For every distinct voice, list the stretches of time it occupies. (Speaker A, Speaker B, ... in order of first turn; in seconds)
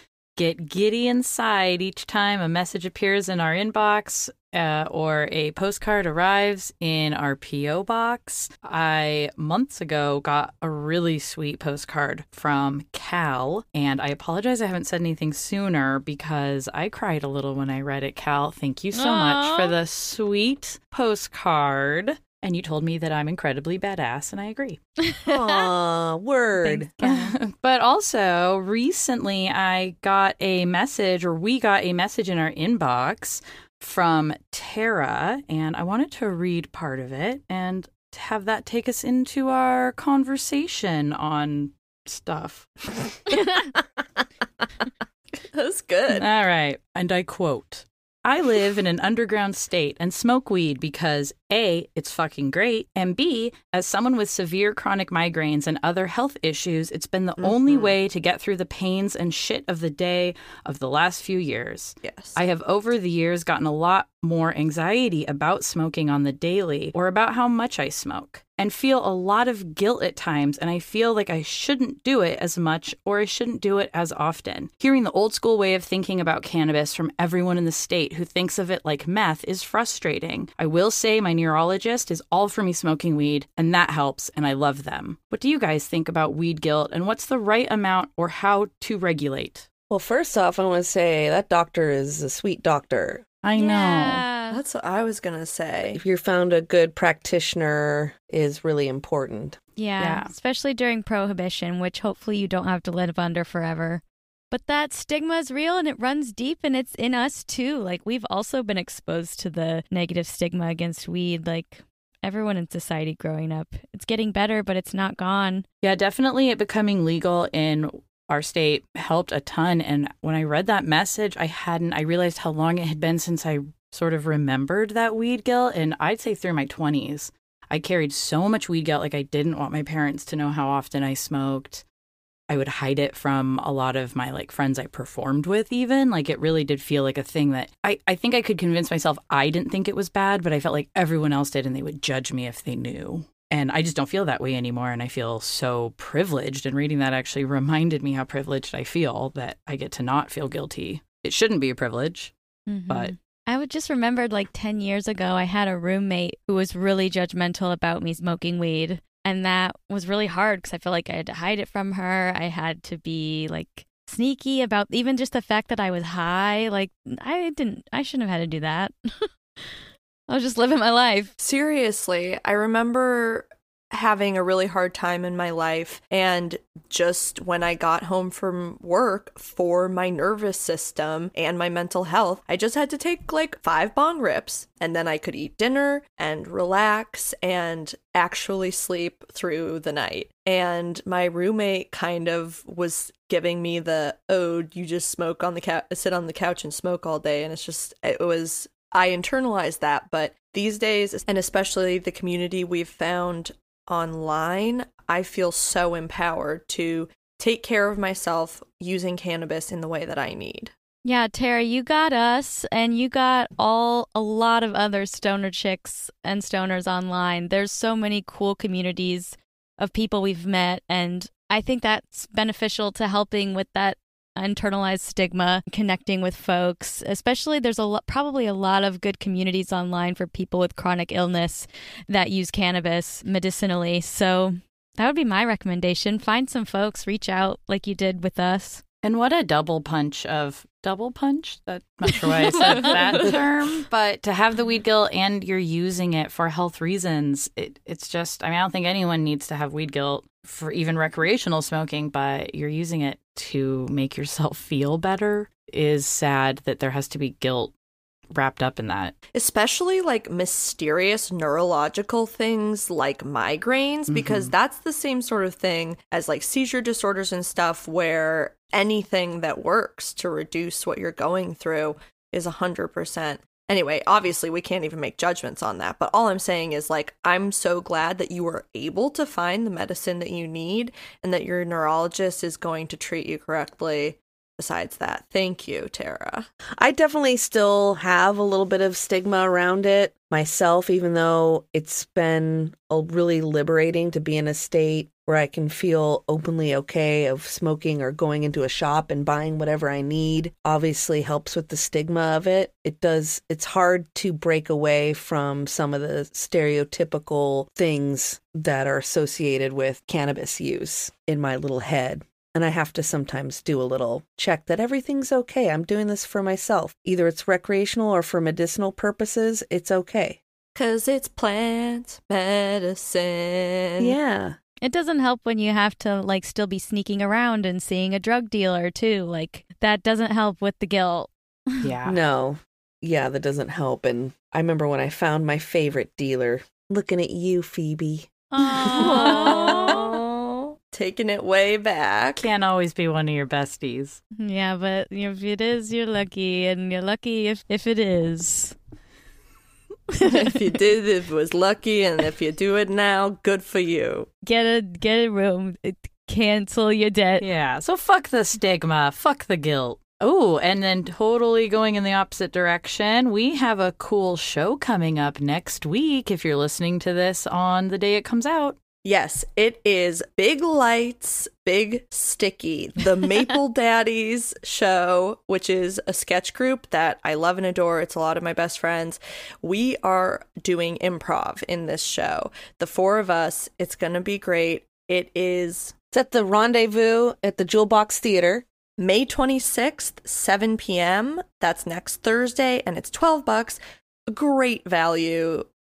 Speaker A: 0.4-24.8, 27.0-42.7, 46.1-89.7, 93.4-94.2, 100.0-100.3, 115.8-131.8, 132.5-152.3, 239.0-257.7, 258.3-259.2, 264.1-264.5, 331.8-332.2, 339.0-339.8, 342.4-344.2, 357.4-368.8
Speaker B: 18.9-19.8, 25.0-25.7, 26.6-27.4, 43.3-43.7, 93.5-94.6, 99.8-115.7, 152.7-169.8, 170.3-171.3, 211.0-238.8, 242.3-243.4, 324.8-331.9, 338.5-340.1, 344.4-348.8, 350.2-350.5, 354.4-357.5
Speaker C: 25.2-26.9, 89.9-93.2, 95.9-99.6, 286.8-320.4, 324.0-324.6, 332.1-338.3, 386.1-388.6
Speaker D: 45.5-46.3, 57.4-58.0, 62.0-62.4, 94.5-96.0, 171.4-210.7, 259.3-286.5, 320.8-324.2, 338.9-342.5, 350.2-354.3, 369.0-385.9, 389.0-395.7